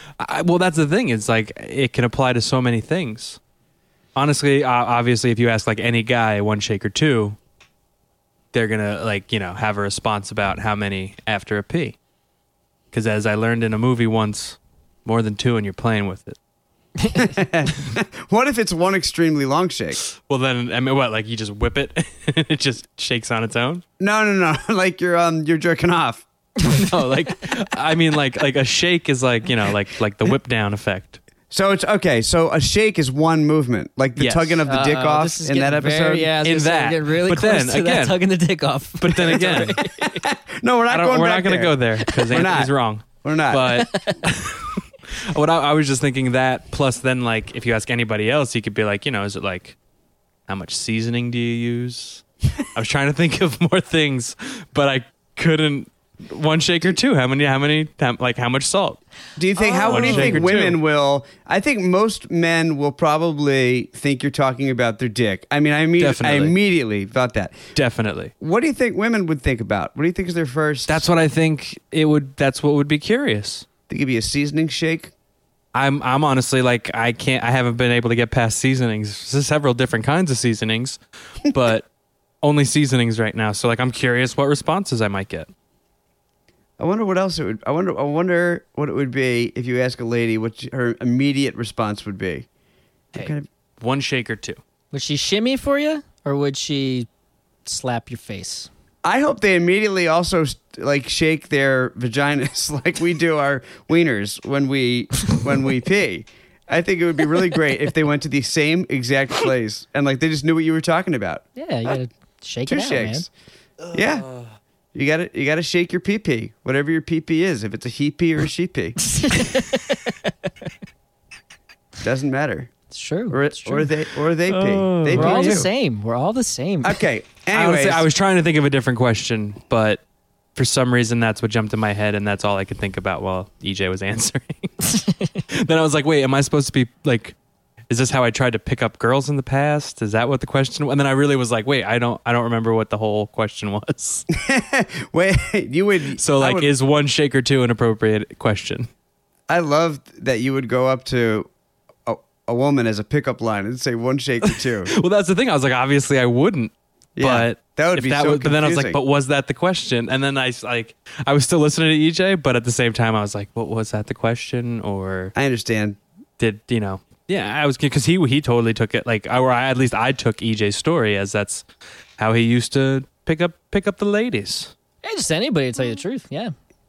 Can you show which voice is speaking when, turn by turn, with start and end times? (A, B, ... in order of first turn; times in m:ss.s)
0:00.2-0:03.4 A
0:04.2-0:07.4 A
0:08.5-0:12.0 A
0:12.9-0:16.4 A
0:17.0-0:17.3 B
0:17.1-0:20.0 C
0:20.1-0:23.8 A
0:24.0-0:26.2 C
0:26.7-0:31.2 A
0:31.5-0:36.3 C
0:34.2-0:34.6 A
0:34.7-0:40.2 B
0:36.4-0:38.2 A
0:39.0-0:39.8 A
0:39.3-0:42.7 C
0:40.9-0:49.8 A
0:43.2-0:43.8 C
0:43.7-0:44.2 B
0:50.5-0:59.0 A
0:59.4-1:07.6 C
0:59.6-1:00.5 B
0:59.8-1:00.8 A
1:06.0-1:06.5 A
1:07.7-1:08.3 A
1:08.4-1:11.0 C
1:10.9-1:13.7 A
1:13.9-1:15.1 C
1:15.7-1:21.9 A
1:22.4-1:25.5 A
1:26.8-1:32.5 C
1:33.1-1:33.4 C
1:33.1-1:34.6 A
1:34.9-1:37.1 B
1:37.6-1:38.7 B
1:39.0-1:51.4 C
1:51.6-1:53.2 B
1:52.7-1:53.3 C
1:53.9-1:54.2 C
1:53.9-1:54.4 A
1:54.9-1:59.0 C
1:59.0-2:00.2 B
2:02.0-2:02.7 C
2:02.9-2:03.9 B
2:03.3-2:05.7 C
2:04.5-2:05.7 A
2:05.1-2:07.0 B
2:06.8-2:08.0 C
2:07.5-2:10.0 A
2:10.6-2:17.4 A
2:17.9-2:24.2 A
2:24.3-2:26.7 C
2:26.2-2:28.9 A
2:29.5-2:31.5 C
2:32.0-2:34.9 C
2:34.4-2:45.3 A
2:37.2-2:39.0 C
2:45.3-2:46.0 C
2:46.4-2:51.6 A
2:52.2-2:54.7 A
2:55.0-2:56.5 B